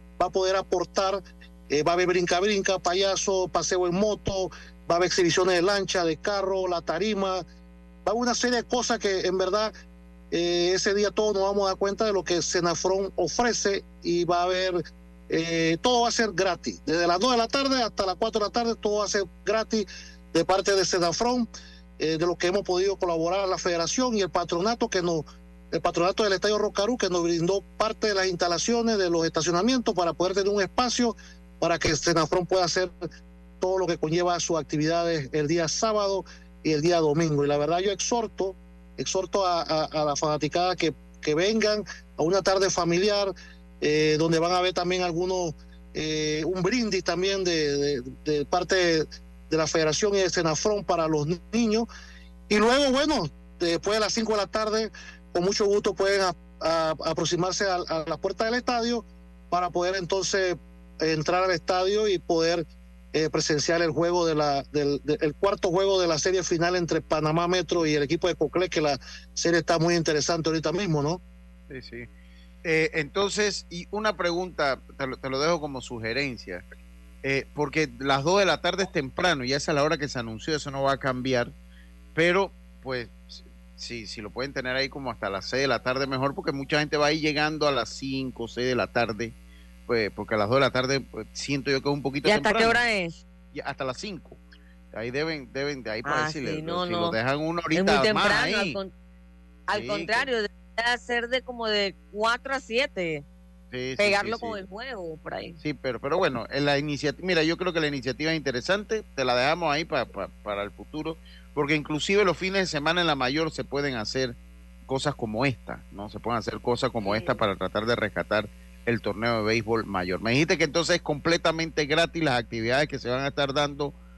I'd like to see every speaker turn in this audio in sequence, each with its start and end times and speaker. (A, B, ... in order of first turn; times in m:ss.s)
0:00.2-0:07.4 A
0:08.0-0:09.7 A
0:10.3-0:21.5 A
0:22.0-0:32.9 A
0:33.6-0:51.9 A
0:52.5-1:11.2 A
1:11.7-1:12.1 B
1:12.6-1:16.6 B
1:17.2-1:21.5 B
1:22.1-1:29.3 B
1:29.9-1:32.8 B
1:32.2-1:33.2 C
1:33.5-1:34.4 B
1:34.9-1:38.8 B
1:36.0-1:37.2 C
1:37.7-1:38.9 C
1:39.7-1:43.2 C
1:39.7-1:40.3 B
1:43.7-1:44.6 B
1:44.0-1:45.6 C
1:45.6-1:54.3 B
1:54.8-2:03.9 B
1:57.0-1:57.4 C